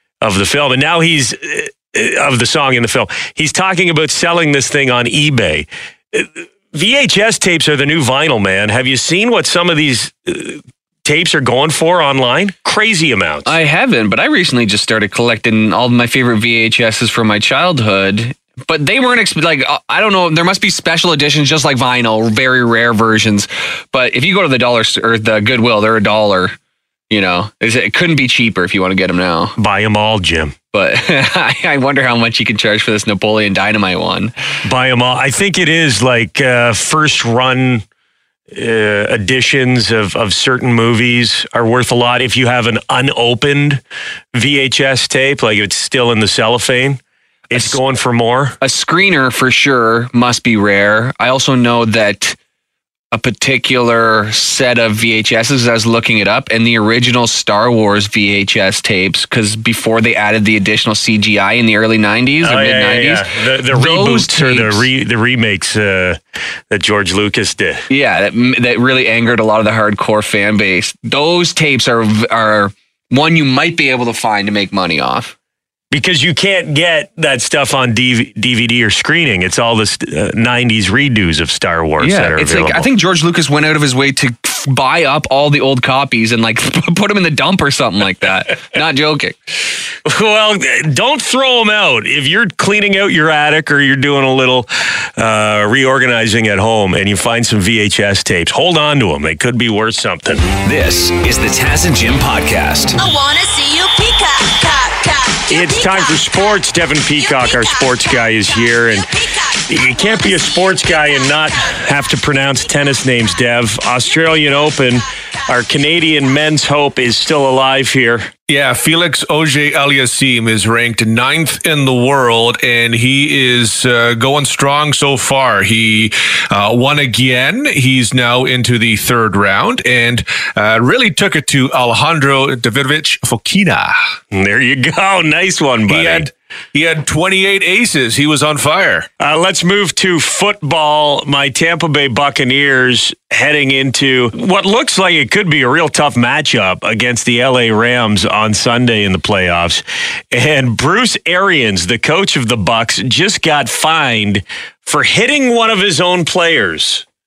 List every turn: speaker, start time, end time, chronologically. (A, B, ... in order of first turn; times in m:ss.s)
0:00.2-0:13.6 A
0:13.5-0:26.6 B
0:27.1-0:29.6 B
0:29.6-0:30.6 A
0:30.7-0:34.3 B
0:34.6-0:37.8 A
0:38.5-0:43.8 A
0:44.3-0:48.6 A
0:47.5-0:47.8 B
0:48.6-0:52.4 B
0:53.1-1:04.9 B
1:02.4-1:07.8 A
1:07.9-1:15.3 B
1:15.9-1:22.9 A
1:22.0-1:29.4 B
1:30.0-1:40.5 A
1:40.6-1:43.0 C
1:43.0-1:46.6 D
1:45.5-1:58.3 A
1:47.2-1:48.4 D
1:49.1-1:50.5 D
1:58.5-2:14.0 E
2:14.3-2:16.3 A
2:15.9-2:19.1 E
2:19.2-2:37.0 A